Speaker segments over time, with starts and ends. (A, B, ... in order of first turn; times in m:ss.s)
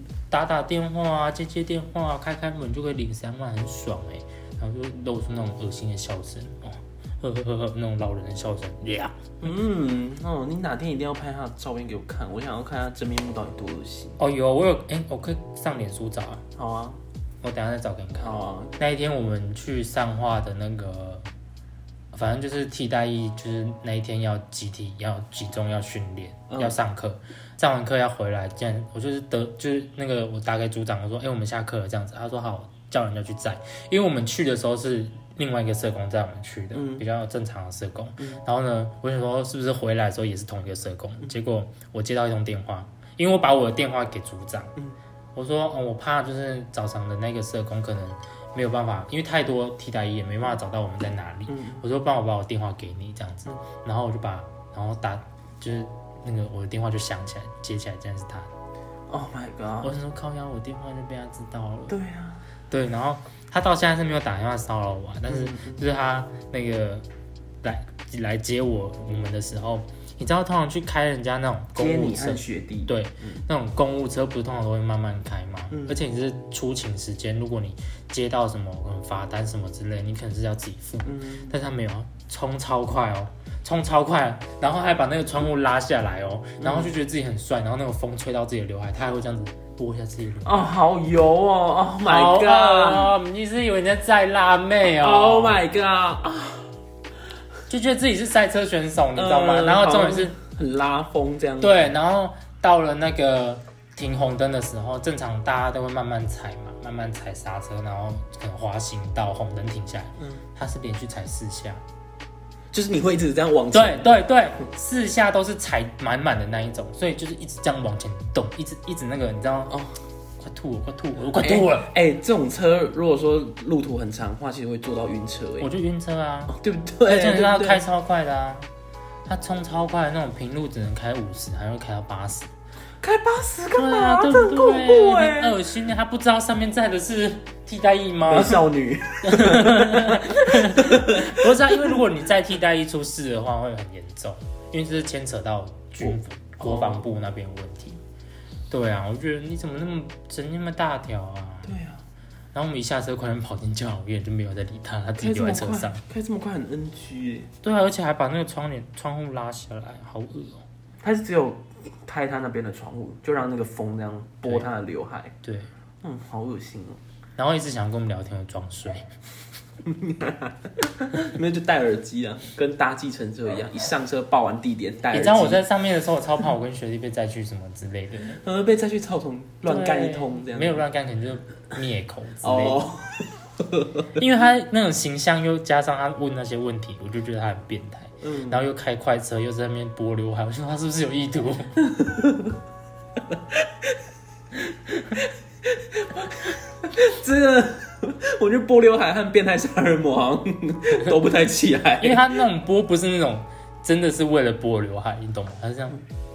0:00.3-0:09.2 A
0:09.4-0:14.2 B
0:14.2-0:16.4 A
0:16.6-0:17.0 B
0:17.4-0:21.2 A
0:18.2-0:18.8 B
0:22.1-0:44.8 A
0:26.5-0:26.8 B
0:36.7-0:37.0 B
0:45.4-0:58.5 A
0:51.5-0:51.8 B
0:59.1-0:59.9 B
0:59.8-1:02.0 A
1:01.9-1:02.4 B
1:02.7-1:07.1 A
1:05.3-1:05.8 B
1:07.6-1:30.7 A
1:11.8-1:13.4 B
1:15.7-1:16.0 B
1:21.0-1:21.5 B
1:26.6-1:26.9 B
1:30.4-1:33.2 B
1:32.0-1:35.6 A
1:35.0-1:36.7 B
1:37.7-1:40.4 A
1:39.2-1:41.9 B
1:41.6-1:51.8 A
1:52.7-1:54.2 B
1:53.7-1:59.8 A
1:59.7-2:00.0 B
2:00.4-2:01.9 A
2:01.4-2:05.7 B
2:05.6-2:08.7 A
2:06.5-2:07.8 B
2:09.3-2:12.5 A
2:13.0-2:15.6 B
2:13.8-2:18.7 A
2:18.3-2:22.0 B
2:19.2-2:28.0 A
2:26.0-2:27.0 B
2:28.7-2:31.7 A
2:31.6-2:32.0 B
2:32.5-2:36.0 A
2:35.2-2:37.5 B
2:37.6-2:40.6 A
2:41.0-2:45.4 B
2:45.4-2:45.7 A
2:46.0-2:47.0 B
2:47.4-2:49.1 A
2:49.8-2:55.6 B
2:55.1-2:58.4 A
2:58.4-3:00.8 B
2:59.6-3:02.8 A
3:02.4-3:04.1 B
3:04.2-3:11.7 A
3:08.2-3:08.7 B
3:11.8-3:12.6 B
3:13.3-3:14.0 B
3:14.7-3:22.3 B
3:22.0-3:26.0 A